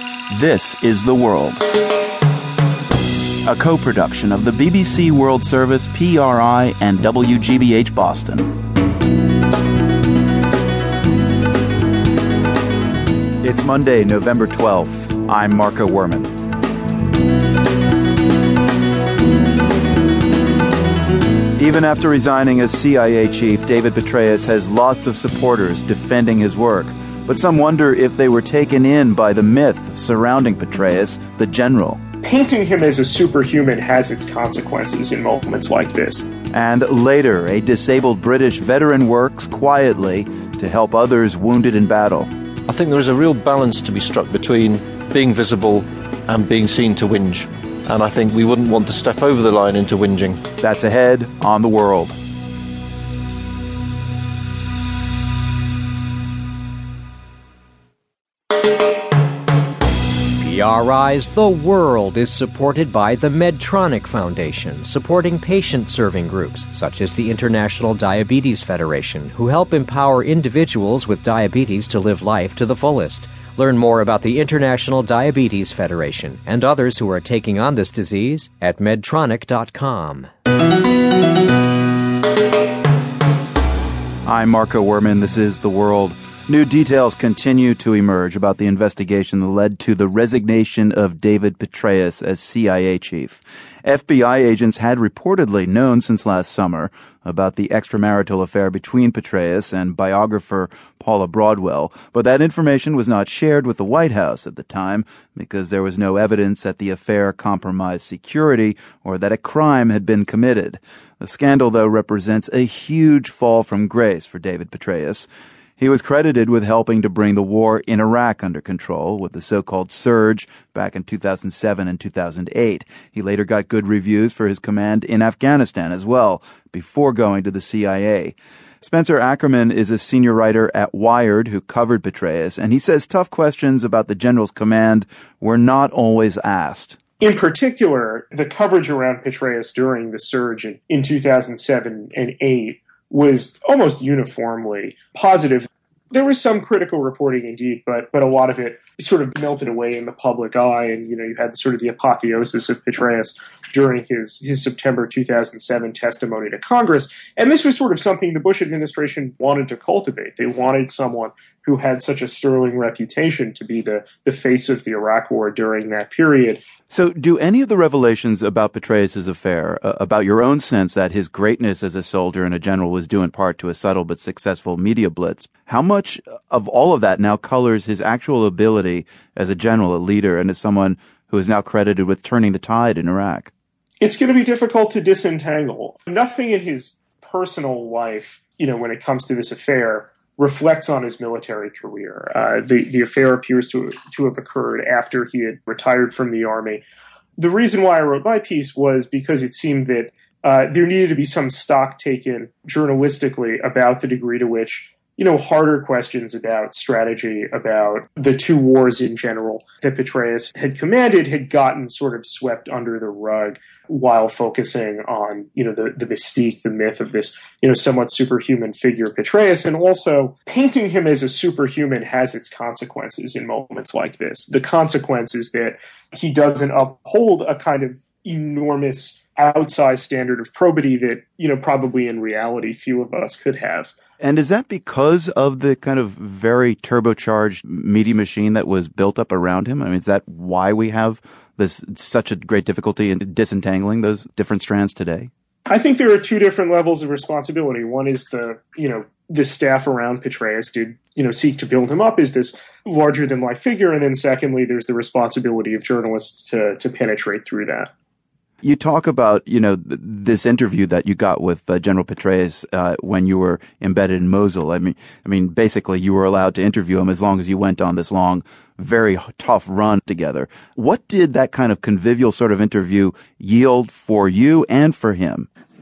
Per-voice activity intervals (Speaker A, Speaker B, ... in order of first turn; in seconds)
Speaker A: 0.3-1.6, 3.4-8.5, 13.4-16.3, 21.6-32.0, 36.5-42.3, 50.6-52.1, 84.2-137.0, 166.9-183.5, 234.2-245.3, 258.6-275.5
Speaker B: 32.2-36.2, 137.2-166.6, 184.0-196.8, 197.4-233.9, 245.7-257.9
Speaker C: 42.7-50.4
Speaker D: 60.4-80.3